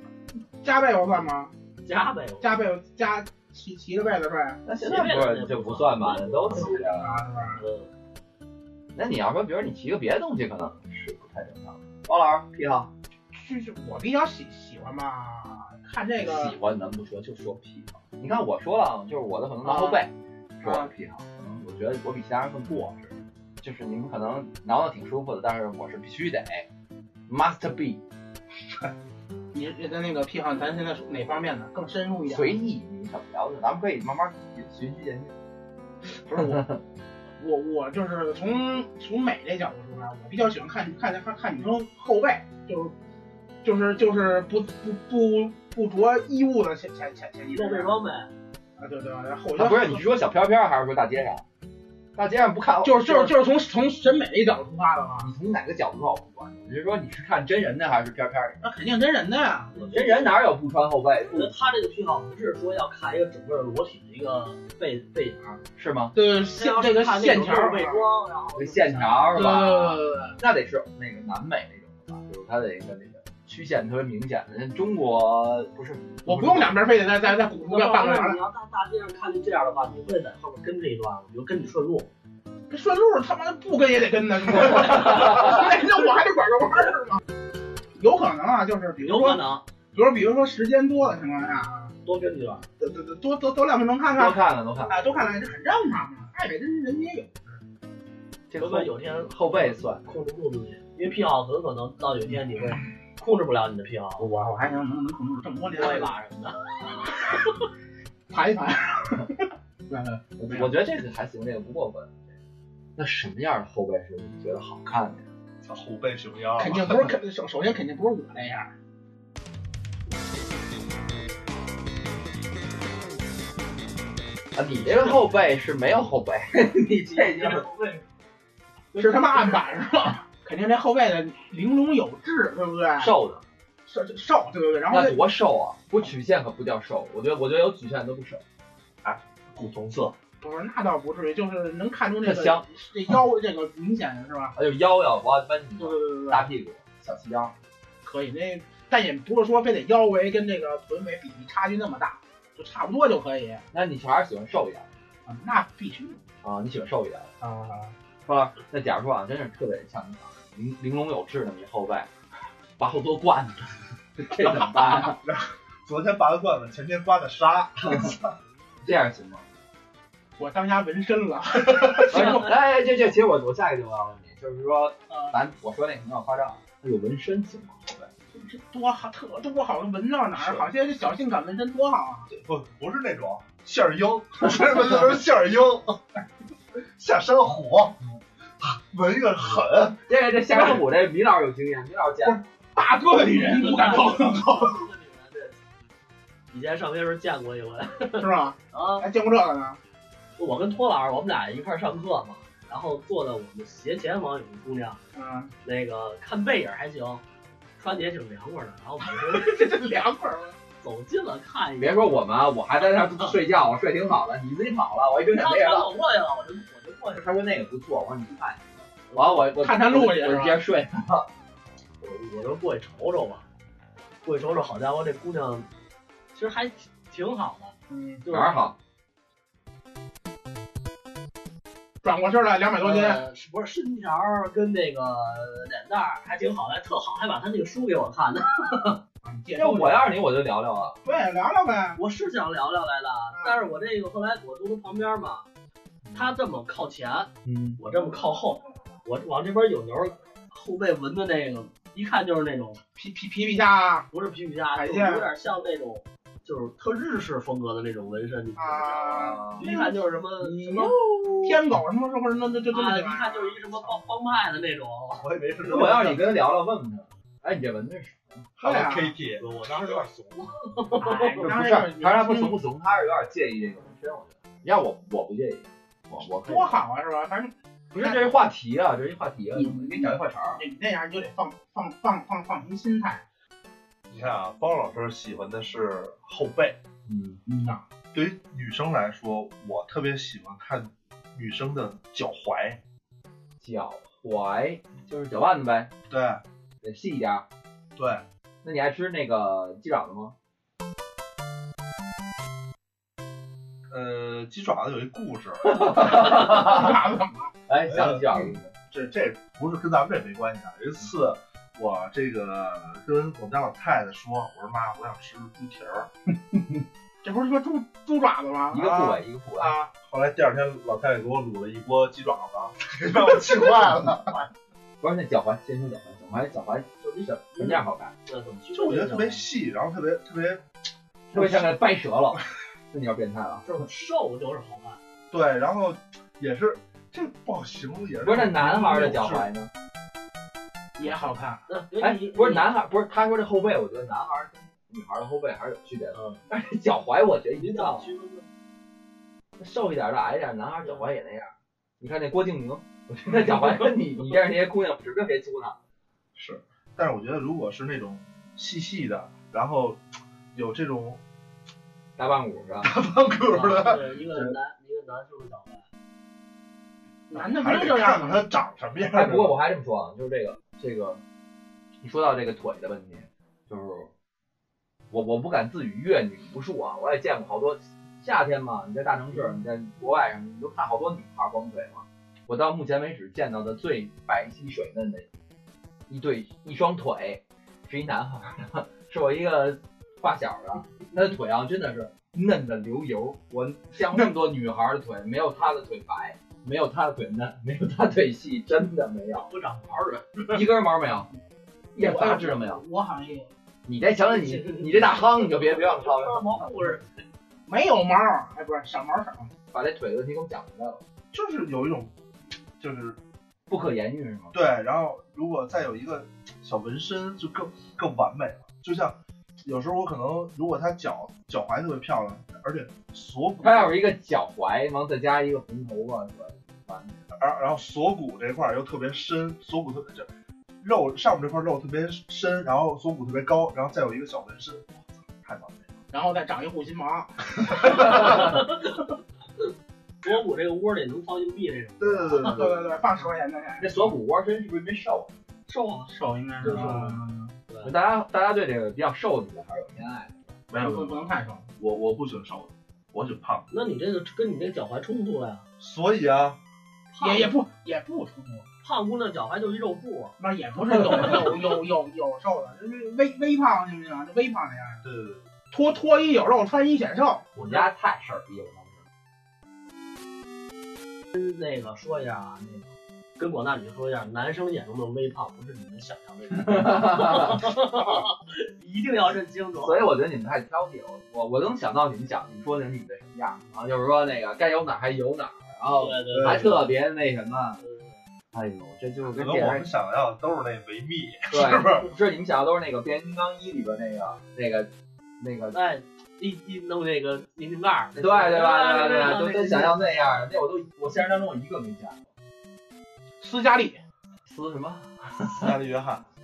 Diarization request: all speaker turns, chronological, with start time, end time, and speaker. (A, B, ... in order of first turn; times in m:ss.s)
0:00.6-0:01.5 A
0:01.8-0:02.6 B
0:02.4-0:04.6 A
0:04.6-0:07.1 C
0:04.8-0:07.9 B
0:06.5-0:07.6 A
0:08.9-0:12.9 C
0:13.3-0:16.5 A
0:16.2-0:26.6 C
0:19.6-0:20.0 A
0:20.6-0:20.9 A
0:27.3-0:28.0 C
0:29.5-0:32.6 A
0:32.3-0:35.3 C
0:36.3-0:36.6 A
0:36.3-0:36.8 C
0:37.4-0:42.9 A
0:43.6-0:47.9 A
0:47.5-0:48.3 B
0:48.8-0:50.1 A
0:49.6-0:51.4 C
0:52.2-0:53.4 C
0:52.8-0:55.3 A
0:55.2-0:58.6 C
0:58.6-0:59.9 A
0:59.7-1:00.4 B
0:59.9-1:01.5 C
1:01.3-1:05.6 B
1:05.8-1:06.1 C
1:06.1-1:08.1 A
1:06.5-1:09.4 B
1:08.6-1:16.7 C
1:09.3-1:10.4 A
1:16.2-1:18.4 A
1:17.2-1:22.1 B
1:22.7-1:27.2 A
1:24.8-1:25.6 C
1:27.9-1:29.4 A
1:29.0-1:29.6 B
1:29.9-1:31.9 A
1:32.0-1:32.6 B
1:32.8-1:37.6 A
1:34.1-1:35.3 C
1:38.5-1:40.0 C
1:38.6-1:44.3 B
1:44.2-1:46.1 A
1:45.7-1:46.6 B
1:48.3-1:50.7 A
1:50.4-1:52.3 C
1:53.0-1:55.2 C
1:55.6-1:57.2 D
1:56.6-1:58.7 A
2:04.6-2:07.6 C
2:04.9-2:05.1 B
2:07.1-2:08.0 B
2:08.9-2:09.6 B
2:08.9-2:13.1 A
2:13.0-2:13.4 C
2:13.8-2:15.2 A
2:14.9-2:18.4 C
2:19.0-2:20.1 D
2:20.4-2:24.5 A
2:22.2-2:22.6 C
2:24.5-2:27.5 C
2:25.8-2:26.4 A
2:28.0-2:33.6 A
2:33.7-2:34.9 C
2:35.3-2:36.2 A
2:36.4-2:37.3 C
2:37.4-2:37.9 A
2:38.2-2:42.1 C
2:42.8-2:45.2 C
2:44.4-2:48.3 D
2:47.9-2:48.1 C
2:48.8-2:49.4 C
2:50.4-2:52.5 A
2:52.1-2:58.0 C
2:52.1-2:52.5 B
2:55.1-2:55.3 A
2:58.3-3:02.3 A
3:00.4-3:00.6 D
3:02.3-3:06.0 D
3:06.8-3:08.0 D
3:08.6-3:10.0 D
3:10.1-3:12.4 C
3:12.2-3:14.8 A
3:13.3-3:15.6 B
3:16.5-3:19.0 B
3:18.2-3:19.8 A
3:20.4-3:25.0 B
3:25.1-3:25.5 A
3:25.6-3:27.2 B
3:27.8-3:29.6 B
3:29.1-3:30.6 A
3:30.8-3:32.1 B
3:31.8-3:35.9 C
3:35.3-3:37.2 B
3:37.2-3:41.3 C
3:39.1-3:39.5 B
3:39.6-3:40.6 A
3:42.0-3:43.4 B
3:44.2-3:45.7 B
3:46.3-3:48.7 B
3:47.9-3:48.2 A
3:48.3-3:48.7 C
3:52.0-3:53.2 A
3:52.8-3:59.0 B
3:59.2-4:00.2 A
3:59.6-4:01.0 C
4:01.0-4:02.0 A
4:02.0-4:05.5 B
4:03.3-4:03.6 A
4:06.0-4:06.3 C
4:06.1-4:12.8 B
4:07.4-4:07.8 C
4:13.0-4:14.1 A
4:14.1-4:21.6 B
4:14.7-4:15.3 A
4:18.6-4:23.6 A
4:19.2-4:19.7 C
4:22.7-4:25.2 B
4:25.2-4:26.2 D
4:25.7-4:28.5 C
4:28.6-4:30.1 D
4:28.6-4:29.1 A
4:29.4-4:31.5 B
4:31.0-4:32.6 A
4:31.4-4:36.8 C
4:36.4-4:38.4 A
4:37.9-4:40.6 C
4:39.5-4:43.2 A
4:44.1-4:46.8 D
4:47.0-4:47.4 C
4:47.5-4:47.8 A
4:48.1-4:52.8 D
4:53.6-4:55.9 C
4:56.1-4:56.4 D
4:56.8-4:57.4 C
4:58.0-4:58.2 D
4:58.6-5:00.3 C
5:03.9-5:06.2 D
5:05.6-5:07.0 C
5:06.0-5:07.5 A
5:07.7-5:08.7 C
5:07.9-5:16.1 D
5:17.2-5:19.9 A
5:18.7-5:19.7 C
5:20.0-5:24.4 D
5:25.0-5:26.9 C
5:27.0-5:29.4 B
5:27.4-5:28.1 C
5:28.7-5:30.6 D
5:31.3-5:31.7 D
5:31.3-5:33.7 C
5:33.6-5:35.0 B
5:35.3-5:39.5 D
5:38.2-5:39.7 C
5:41.0-5:41.6 A
5:41.7-5:42.7 B
5:42.0-5:48.1 C
5:46.1-5:46.4 B
5:47.6-5:48.5 B
5:49.6-5:55.8 C
5:56.4-6:00.0 D
6:00.5-6:01.2 D
6:02.2-6:02.9 C
6:02.8-6:04.0 D
6:03.5-6:05.8 B
6:07.3-6:08.5 A
6:07.4-6:09.6 D
6:09.1-6:11.2 C
6:12.0-6:14.1 C
6:15.1-6:25.2 C
6:26.1-6:39.5 C
6:39.3-6:40.6 B
6:40.5-6:41.3 C
6:41.9-6:42.8 C
6:42.0-6:43.5 A
6:43.8-6:47.0 C
6:44.2-6:47.2 B
6:47.7-6:49.5 A
6:49.7-6:51.0 C
6:51.3-6:52.1 D
6:52.8-6:53.2 D
6:53.7-6:54.6 C
6:54.5-7:04.0 D
7:03.6-7:07.2 C
7:07.4-7:10.3 D
7:10.8-7:16.0 D
7:16.1-7:18.3 A
7:17.9-7:18.9 B
7:20.2-7:22.6 B
7:22.0-7:23.1 D
7:22.4-7:24.1 A
7:23.8-7:25.3 C
7:25.7-7:27.9 B
7:26.1-7:27.5 A
7:27.8-7:30.6 C
7:30.7-7:31.2 D
7:30.7-7:31.7 A
7:31.8-7:33.7 D
7:33.7-7:35.6 B
7:35.8-7:36.6 D
7:37.1-7:37.5 B
7:37.2-7:38.7 A
7:38.8-7:40.4 B
7:40.4-7:45.0 A
7:45.0-7:45.4 D
7:45.7-7:47.5 A
7:47.5-7:49.0 C
7:47.6-7:47.8 B
7:51.3-8:00.1 B
7:56.5-7:57.6 C
7:59.8-8:07.8 C
8:05.9-8:06.8 B
8:06.3-8:06.8 D
8:07.8-8:08.2 B
8:08.5-8:09.8 C
8:09.3-8:12.1 D
8:11.5-8:15.8 C
8:15.7-8:20.1 B
8:18.2-8:22.2 C
8:23.4-8:24.0 A
8:24.4-8:25.8 C
8:25.4-8:26.2 D